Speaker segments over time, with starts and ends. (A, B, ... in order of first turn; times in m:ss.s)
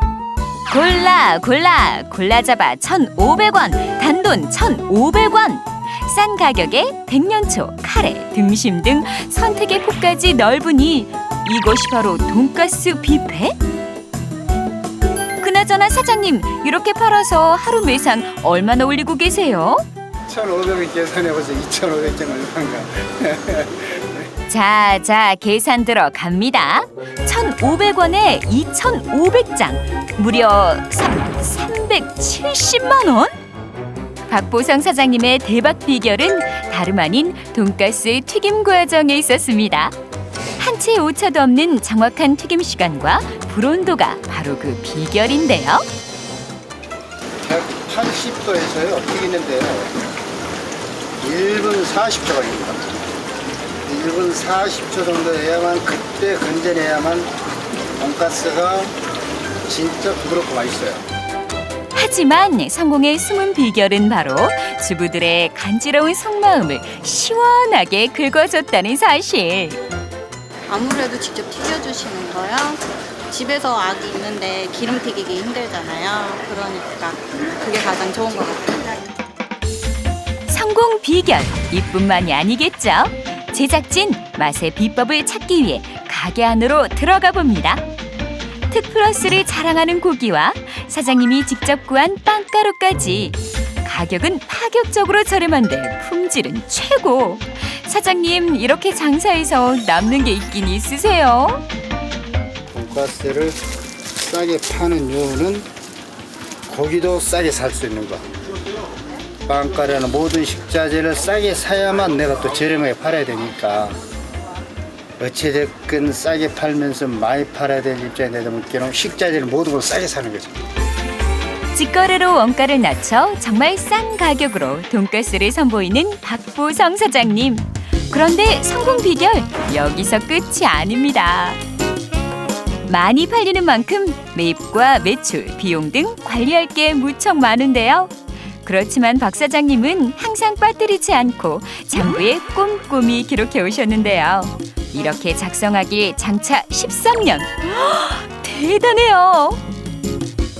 0:00.7-0:13.5 A
0:15.4-0:19.8 A
0:20.3-0:24.2 B
0:24.5-0:33.3 A
0:34.3-0:39.9 A
0:40.6-0:45.8 A
0:47.4-0:49.9 B
0:51.2-0:53.0 B
0:53.8-0:57.3 B
0:58.0-0:58.9 B
0:59.6-1:01.0 B
1:01.9-1:09.8 A
1:10.7-1:19.1 C
1:20.5-1:27.8 A
1:28.7-1:41.6 A
1:42.7-1:43.6 B
1:44.1-1:45.7 B
1:46.7-1:48.2 B
1:49.4-1:54.0 B
1:55.2-2:00.6 B
2:01.7-2:11.6 A
2:12.9-2:29.6 A